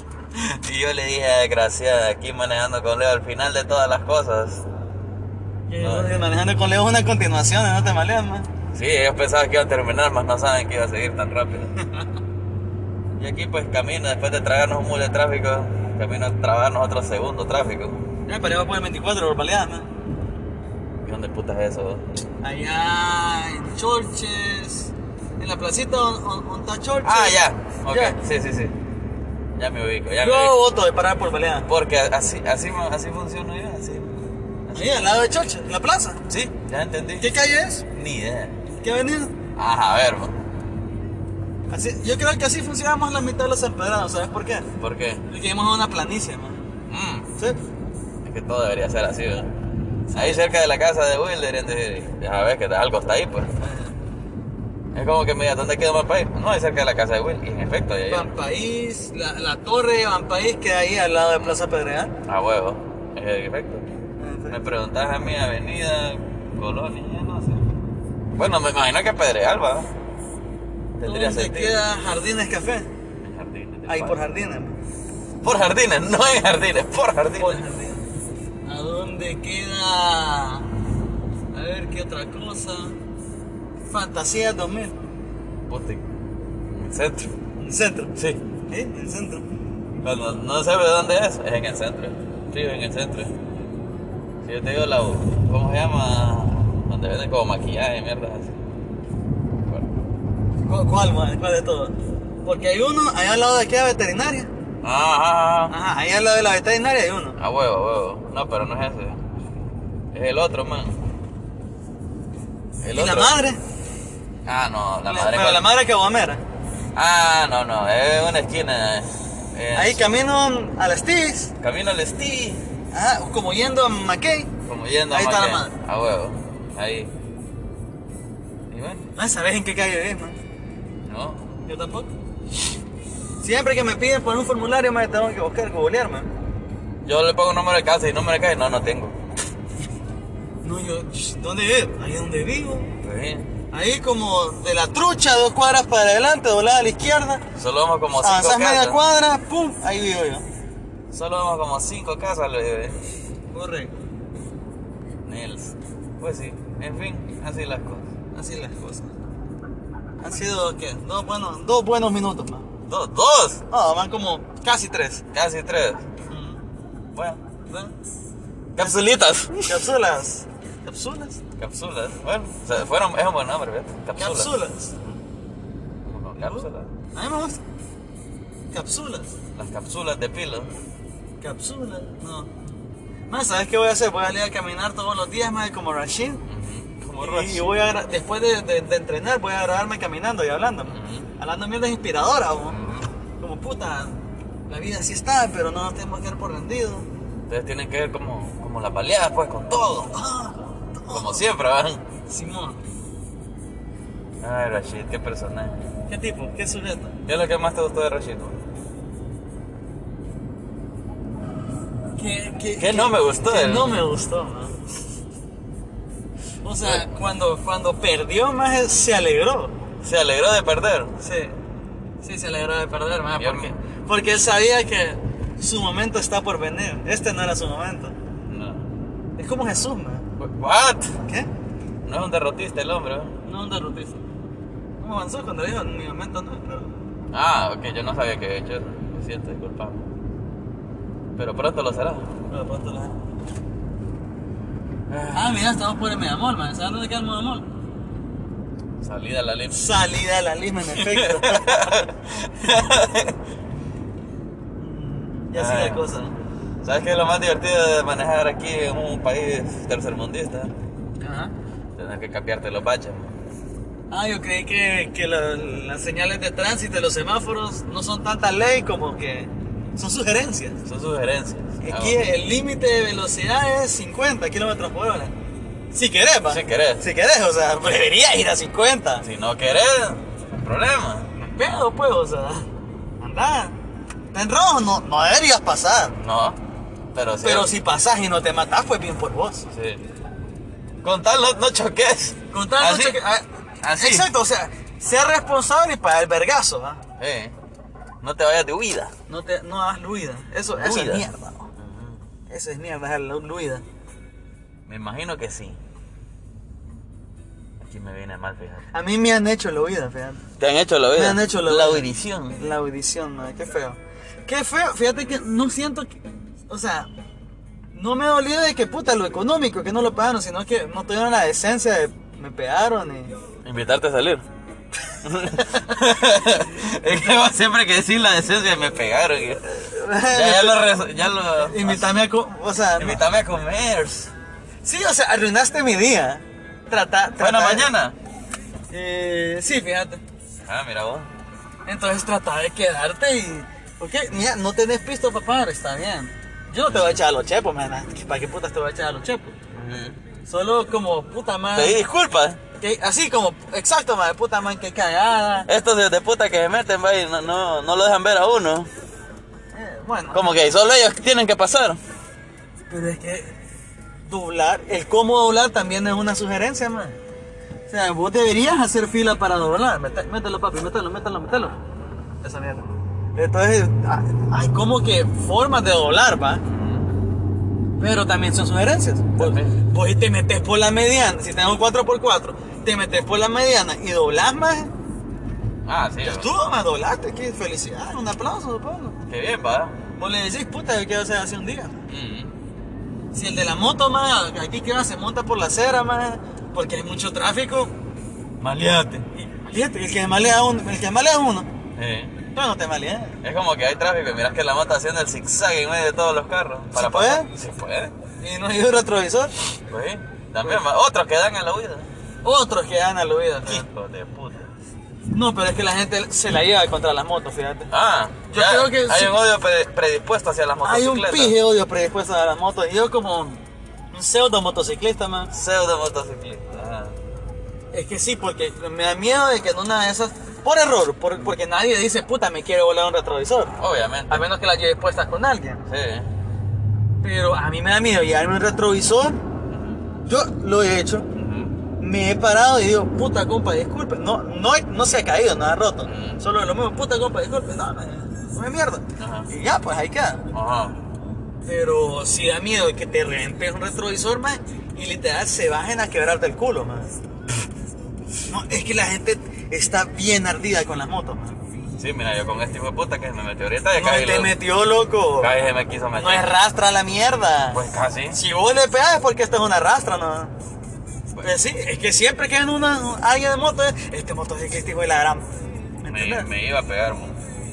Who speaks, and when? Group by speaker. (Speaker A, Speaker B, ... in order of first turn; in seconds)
Speaker A: 0.3-4.7, 5.8-6.2, 8.7-11.7, 13.2-18.1, 21.0-22.0, 27.0-28.7, 29.6-30.6, 31.6-34.1, 34.7-35.3, 36.3-37.3, 37.9-38.6, 39.5-40.3, 44.8-45.2, 46.9-47.3, 48.2-49.5, 50.1-53.5, 54.9-58.4, 62.2-63.9, 64.5-67.7, 68.3-69.9, 71.0-71.8, 73.2-74.2, 75.4-77.6, 85.7-86.0, 86.7-87.3, 88.1-88.4, 90.0-93.3, 94.4-98.6, 104.8-105.7, 107.4-109.2, 110.1-111.0, 112.8-113.3, 114.4-115.7, 116.9-120.0, 121.6-122.6, 124.7-127.1, 128.7-129.0, 131.1-131.4, 137.0-139.1, 143.0-143.5, 147.6-149.0, 151.1-153.0, 155.2-158.1, 162.9-163.6, 165.3-166.1, 167.1-167.4, 168.8-169.8, 171.6-174.6, 176.0-176.9, 179.5-180.7, 186.5-187.7, 190.9-191.3, 192.7-193.1, 197.5-200.2, 201.1-202.0, 204.4-205.8, 207.2-208.6, 212.8-214.0, 220.0-221.1, 223.4-223.7, 228.4-228.9, 230.4-231.2, 232.0-233.3, 237.3-240.1, 241.4-242.3, 245.1-245.6, 249.0-249.8, 250.9-253.3, 255.5-256.0, 256.8-260.7, 262.0-263.3, 270.8-272.2, 276.5-277.1, 279.2-281.3, 286.2-286.6, 287.1-287.7, 289.7-290.0, 291.0-293.2, 293.8-294.3, 297.2-297.5, 298.2-299.1, 300.7-301.2, 301.8-302.2, 304.9-305.8, 307.8-308.8, 310.6-312.6, 323.6-324.4, 325.2-329.6, 330.3-332.1, 333.0-334.3, 337.4-338.1, 340.6-341.3, 346.9-347.2, 349.7-350.2, 351.7-352.6, 355.6-358.9, 360.3-362.0, 376.6-377.1, 379.4-379.8, 385.8-386.5, 389.3-390.0, 392.1-392.5, 398.6-399.3, 402.0-402.4, 403.4-408.1, 409.9-412.1, 413.6-414.7, 417.9-421.6, 425.5-427.1, 433.8-434.5, 435.9-436.3, 439.7-440.0, 441.3-441.8, 446.1-446.4, 449.2-449.5, 450.5-451.0, 461.9-464.6, 465.4-466.5, 467.7-468.4, 476.1-477.4
Speaker B: 5.7-8.5, 18.3-19.9, 22.4-28.1, 30.2-31.7, 34.7-36.2, 37.2-37.8, 38.8-39.3, 41.7-44.6, 45.3-46.6, 50.1-50.4, 53.6-54.0, 58.1-62.1, 64.2-64.6, 71.0-72.9, 73.9-74.8, 77.3-78.0, 78.6-80.7, 81.5-82.9, 83.9-84.9, 87.6-88.1, 88.7-89.5, 100.6-104.5, 105.7-107.4, 112.9-113.6, 115.0-116.4, 119.7-121.5, 122.9-124.5, 125.1-125.7, 129.2-130.3, 131.7-132.1, 133.4-136.3, 140.6-142.9, 143.7-147.4, 148.2-150.4, 153.5-153.9, 158.3-159.1, 160.2-162.7, 163.7-165.2, 166.3-166.6, 167.7-167.9, 169.7-171.4, 174.2-174.9, 176.4-177.6, 178.7-179.3, 181.4-182.5, 183.3-186.4, 187.2-192.8, 193.4-197.1, 200.1-201.4, 202.3-202.8, 206.1-207.1, 212.2-214.7, 216.6-219.7, 221.2-221.5, 222.2-228.1, 229.4-230.2, 233.4-234.2, 235.0-236.9, 242.5-243.1, 245.3-247.7, 249.7-251.9, 254.8-256.4, 261.2-261.5, 264.1-270.8, 271.8-275.3, 275.9-279.2, 281.3-282.6, 283.2-283.7, 284.3-286.1, 287.4-289.6, 292.5-297.0, 299.3-301.7, 302.5-303.8, 308.9-310.4, 311.1-316.1, 316.7-317.1, 317.9-323.3, 325.6-325.9, 329.6-330.8, 331.6-333.2, 334.8-337.9, 338.9-340.2, 341.9-349.5, 350.4-352.0, 352.8-355.7, 359.7-360.4, 362.9-363.5, 364.3-367.2, 367.9-371.8, 372.4-376.6, 378.0-384.9, 386.2-389.2, 390.2-391.9, 393.3-397.9, 399.3-401.7, 402.5-403.4, 406.9-407.5, 408.4-409.5, 412.4-413.8, 415.3-417.9, 418.5-419.3, 420.8-423.6, 424.1-425.5, 427.9-433.7, 434.3-435.8, 437.2-439.4, 440.2-441.3, 442.0-450.4, 451.6-457.1, 458.5-461.6, 463.9-465.5, 466.1-470.5, 471.4-475.4, 476.0-476.5